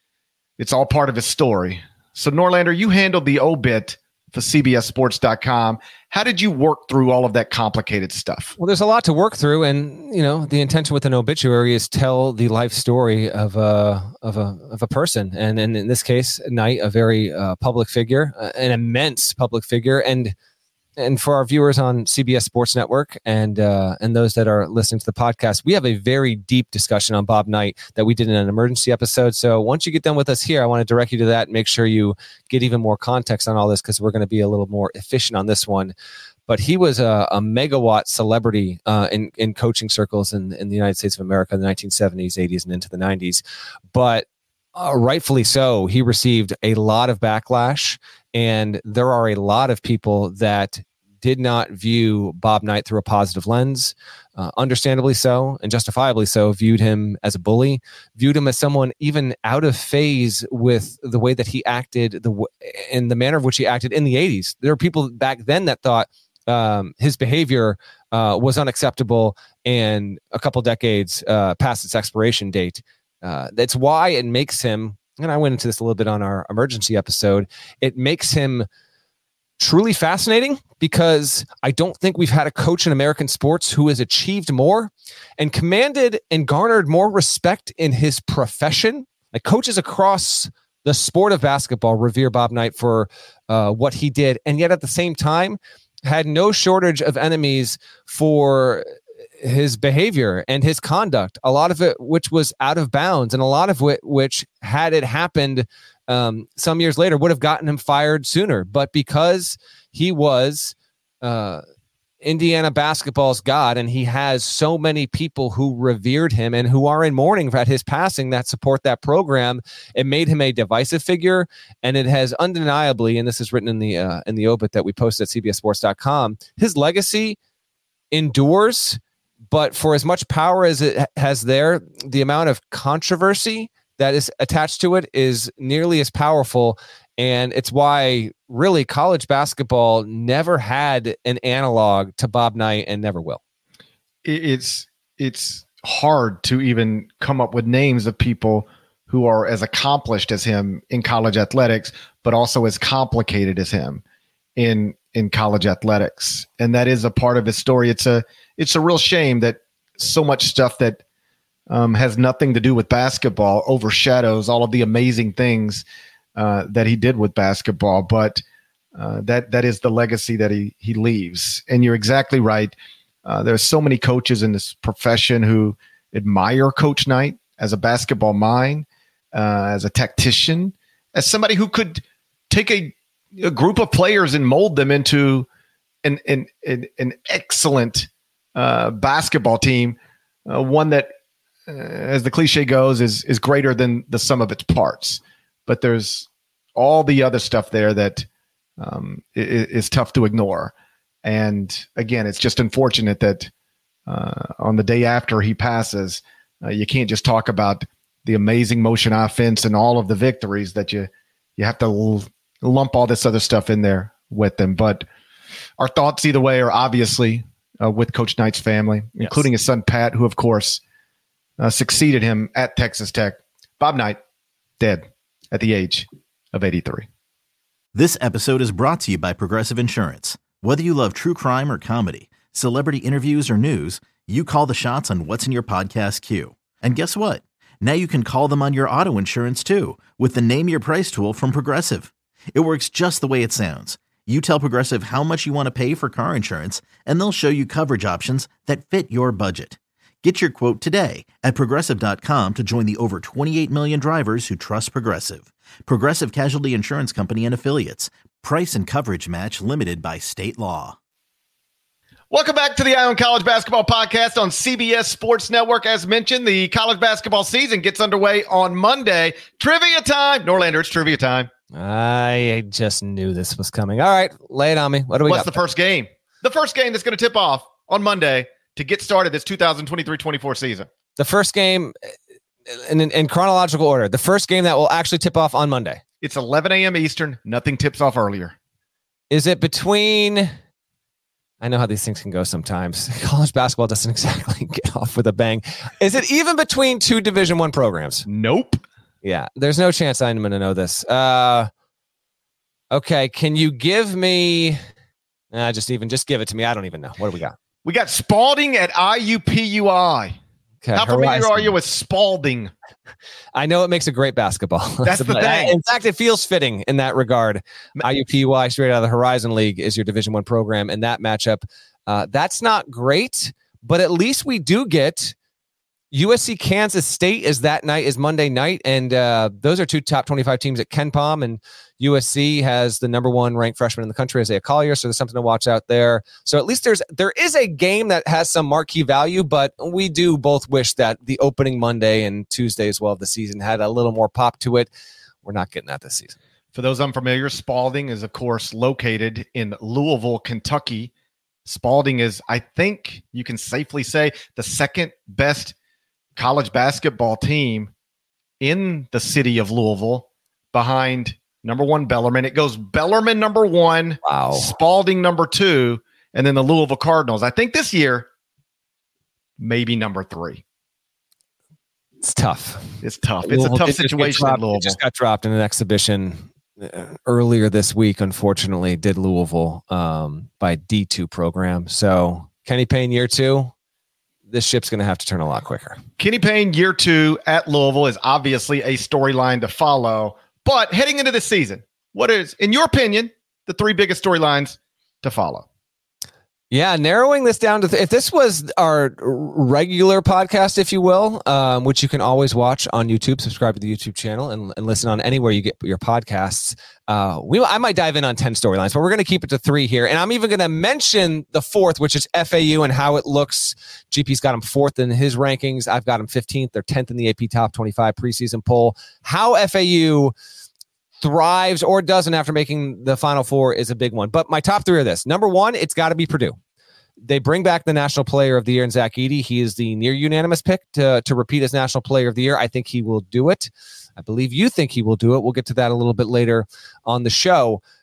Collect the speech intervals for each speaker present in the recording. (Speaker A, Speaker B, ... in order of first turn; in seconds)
Speaker A: 0.6-8.5, 144.2-154.0, 154.6-161.0, 161.7-165.8, 166.3-168.4, 168.9-172.7, 173.2-185.5, 186.0-191.1, 191.7-198.2, 198.8-200.7, 201.2-203.5, 204.1-215.0, 215.8-220.8, 221.6-224.2, 224.8-227.1, 262.3-271.5, 275.2-280.9, 286.2-288.6, 298.2-298.8, 307.8-310.4, 310.9-312.7, 315.0-315.7, 346.7-351.1, 351.6-355.7, 356.4-357.9, 358.6-368.3, 369.6-370.6, 373.0-375.0, 386.2-395.6
Speaker B: 8.6-20.3, 21.0-35.9, 36.5-43.4, 43.9-78.7, 79.6-98.9, 99.4-111.6, 112.2-127.4, 128.1-129.0, 129.5-143.4, 219.2-219.4, 271.7-275.6, 281.2-281.9, 282.7-286.0, 289.3-290.5, 291.6-298.2, 299.2-301.7, 302.9-304.8, 305.5-307.6, 310.8-311.7, 313.5-325.3, 326.1-344.9, 345.4-346.3, 364.2-364.7, 372.2-383.7, 384.5-386.0, 396.7-420.3, 421.2-426.6, 427.2-437.8
Speaker C: 227.9-261.0